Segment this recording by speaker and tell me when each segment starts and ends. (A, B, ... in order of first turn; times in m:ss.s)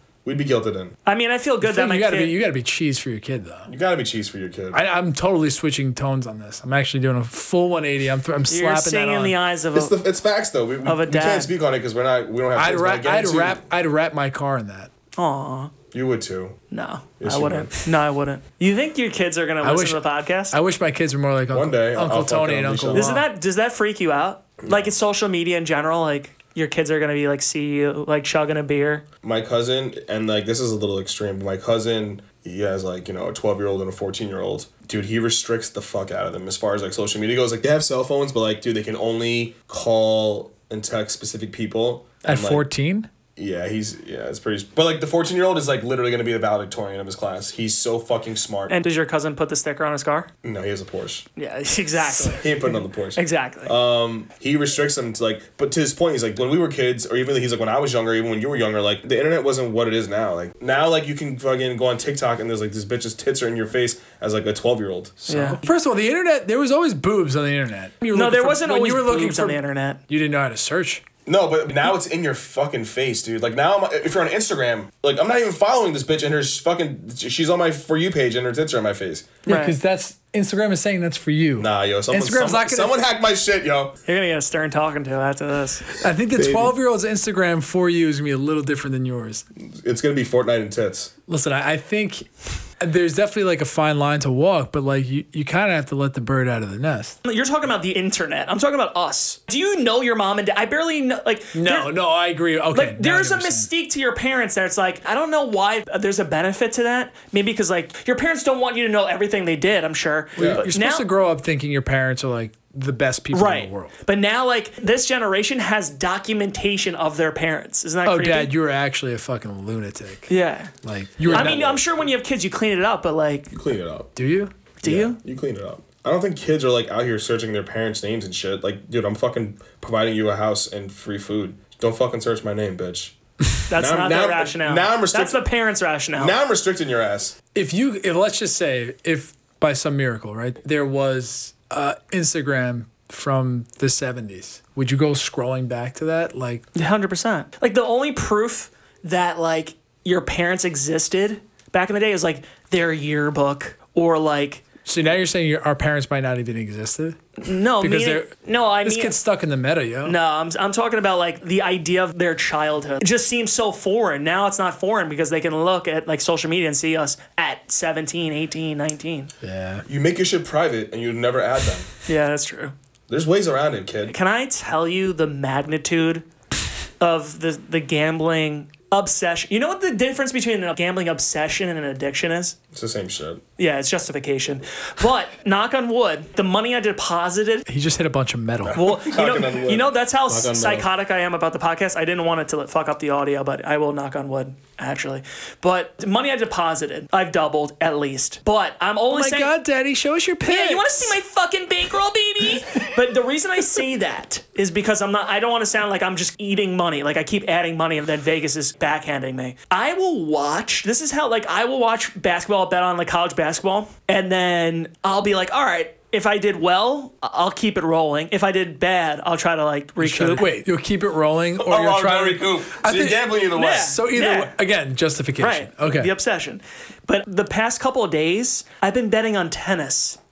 0:00.2-0:01.0 A
0:01.0-0:02.3 B
0:01.6-0:03.7 C
0:03.7-0:04.8 A
0:04.7-0:09.4 C
0:08.5-0:10.0 B
0:09.7-0:13.6 A
0:10.8-0:11.5 B
0:12.5-0:14.9 C
0:15.2-0:15.7 B
0:15.9-0:16.6 A
0:16.7-0:20.6 B
0:17.2-0:17.7 A
0:19.6-0:23.3 C
0:21.5-0:23.1 A
0:22.9-0:29.0 B
0:24.6-0:24.9 A
0:29.2-0:42.6 A
0:42.2-0:43.1 C
0:43.4-0:48.8 A
0:48.7-0:50.3 B
0:50.4-0:51.2 A
0:51.4-0:53.7 B
0:52.2-1:05.3 A
1:05.3-1:05.6 B
1:05.3-1:11.0 C
1:08.1-1:10.0 B
1:11.2-1:19.4 A
1:19.4-1:19.8 B
1:19.4-1:23.0 C
1:21.6-1:24.0 A
1:24.0-1:25.8 B
1:26.0-1:29.4 C
1:26.3-1:26.7 A
1:29.6-1:31.1 A
1:31.3-1:37.2 C
1:37.2-1:41.9 B
1:41.5-1:43.7 C
1:42.7-1:51.0 B
1:50.4-1:50.6 A
1:50.4-1:53.9 C
1:53.3-1:58.5 B
1:58.0-2:00.3 C
2:00.3-2:00.7 B
2:00.8-2:01.7 C
2:01.2-2:02.0 A
2:01.3-2:03.5 B
2:03.5-2:04.1 A
2:04.2-2:04.5 C
2:04.8-2:05.2 B
2:04.8-2:13.2 A
2:13.7-2:16.4 B
2:13.7-2:15.4 A
2:16.2-2:17.4 A
2:17.5-2:26.6 C
2:26.7-2:34.6 B
2:34.8-2:38.3 C
2:37.4-2:39.1 B
2:38.8-2:40.2 C
2:40.0-2:49.3 B
2:49.4-2:49.8 C
2:49.9-2:51.9 A
2:52.1-2:52.7 B
2:53.1-2:54.1 A
2:54.1-2:56.2 B
2:57.0-3:02.6 B
3:02.7-3:03.4 A
3:03.6-3:07.6 B
3:07.7-3:09.0 C
3:08.7-3:10.9 A
3:08.7-3:19.5 B
3:19.1-3:21.2 C
3:20.4-3:40.4 B
3:40.0-3:46.1 C
3:41.6-3:43.9 A
3:43.5-3:44.5 B
3:45.4-3:50.2 B